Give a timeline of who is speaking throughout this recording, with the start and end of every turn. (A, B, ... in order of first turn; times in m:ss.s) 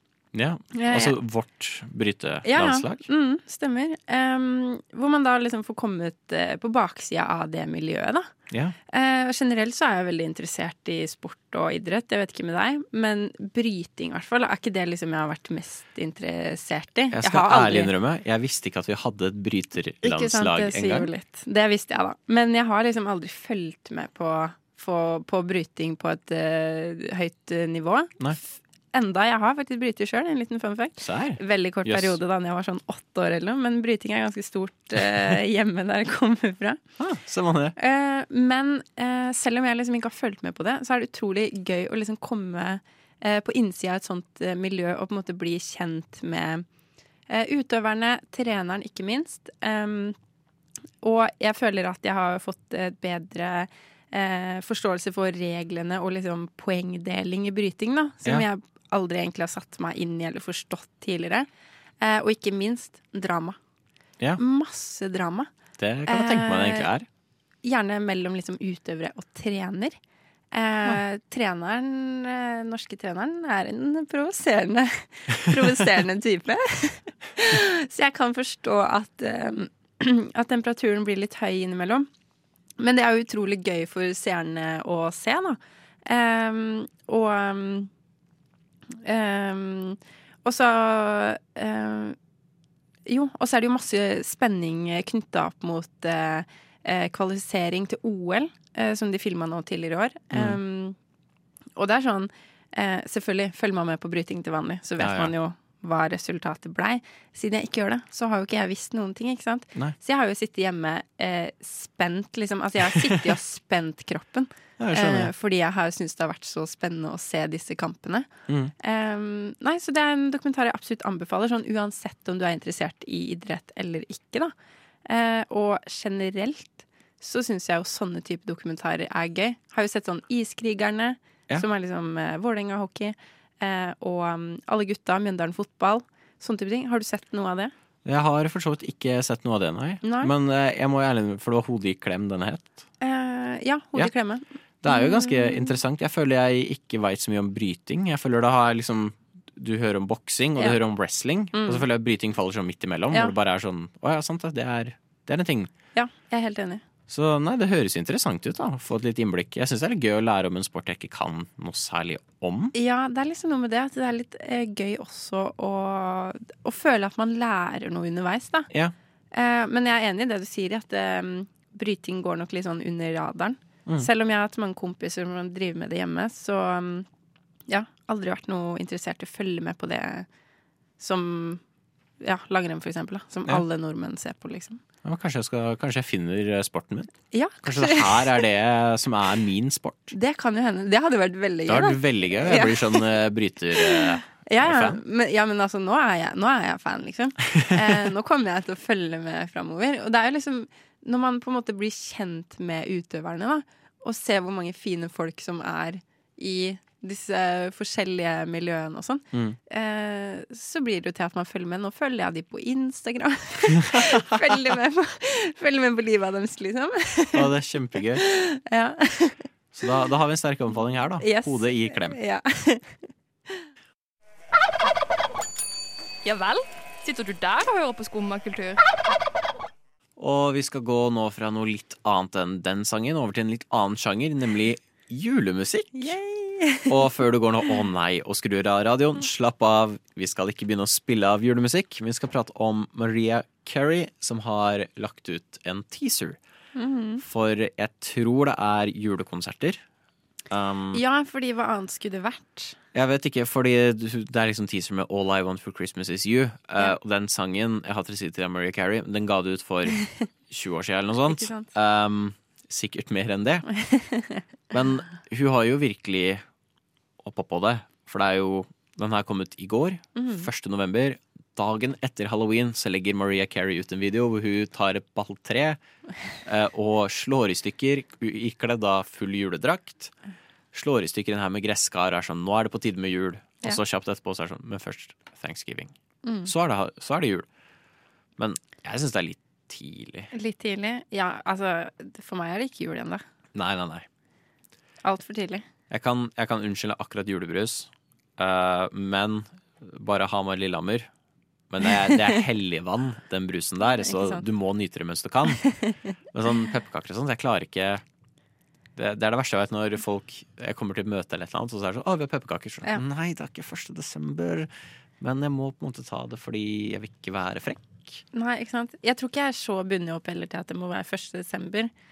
0:00.3-0:03.0 A
0:00.7-0:01.2 B
0:02.4-0:08.3 B
0:08.9-0:17.9 B
0:17.1-0:21.1 A
0:20.0-0:36.8 B
0:31.0-0:32.2 A
0:37.0-0:37.8 A
0:37.8-0:46.6 B
0:47.3-0:50.2 B
0:51.0-1:01.5 B
1:02.0-1:03.6 B
1:04.4-1:05.5 B
1:05.8-1:07.1 A
1:06.1-1:06.9 B
1:07.6-1:10.0 B
1:10.5-1:22.1 B
1:22.8-1:27.9 B
1:29.0-1:32.2 B
1:33.1-1:41.0 B
1:40.3-1:40.6 A
1:41.8-1:58.3 B
1:45.0-1:45.3 A
1:54.8-1:55.3 A
1:58.8-2:04.5 B
2:05.1-2:17.7 B
2:18.0-2:22.8 A
2:20.0-2:20.3 B
2:23.0-2:25.8 B
2:24.8-2:35.7 A
2:31.5-2:31.8 B
2:35.9-2:36.8 B
2:37.1-2:42.8 A
2:42.8-2:48.7 B
2:49.3-2:57.1 B
2:57.7-3:00.3 B
3:01.0-3:01.6 B
3:02.2-3:04.8 B
3:05.0-3:07.1 A
3:07.3-3:08.4 B
3:07.6-3:10.1 A
3:10.1-3:13.1 B
3:11.7-3:15.0 A
3:13.8-3:37.5 B
3:33.8-3:34.4 A
3:37.3-3:38.2 A
3:38.2-3:39.4 B
3:39.7-3:42.2 A
3:41.2-3:43.6 B
3:46.2-3:48.8 C
3:50.2-3:56.2 A
3:56.0-3:57.2 B
3:56.9-4:06.4 A
4:06.8-4:07.2 B
4:07.2-4:09.8 A
4:10.5-4:11.0 A
4:10.9-4:12.8 B
4:12.9-4:23.7 A
4:21.3-4:21.7 B
4:23.8-4:24.4 B
4:24.7-4:26.4 A
4:27.2-4:35.8 A
4:30.2-4:30.5 B
4:36.4-4:40.1 A
4:40.7-4:45.9 A
4:46.2-4:46.5 B
4:46.5-4:47.5 A
4:48.4-4:50.3 A
4:50.3-4:53.2 B
4:53.6-4:54.1 A
4:55.0-4:55.6 B
4:55.9-5:01.1 A
5:01.7-5:05.6 A
5:04.0-5:04.4 B
5:05.6-5:06.0 B
5:06.3-5:08.0 A
5:09.0-5:14.7 A
5:15.2-5:18.2 A
5:18.3-5:21.9 B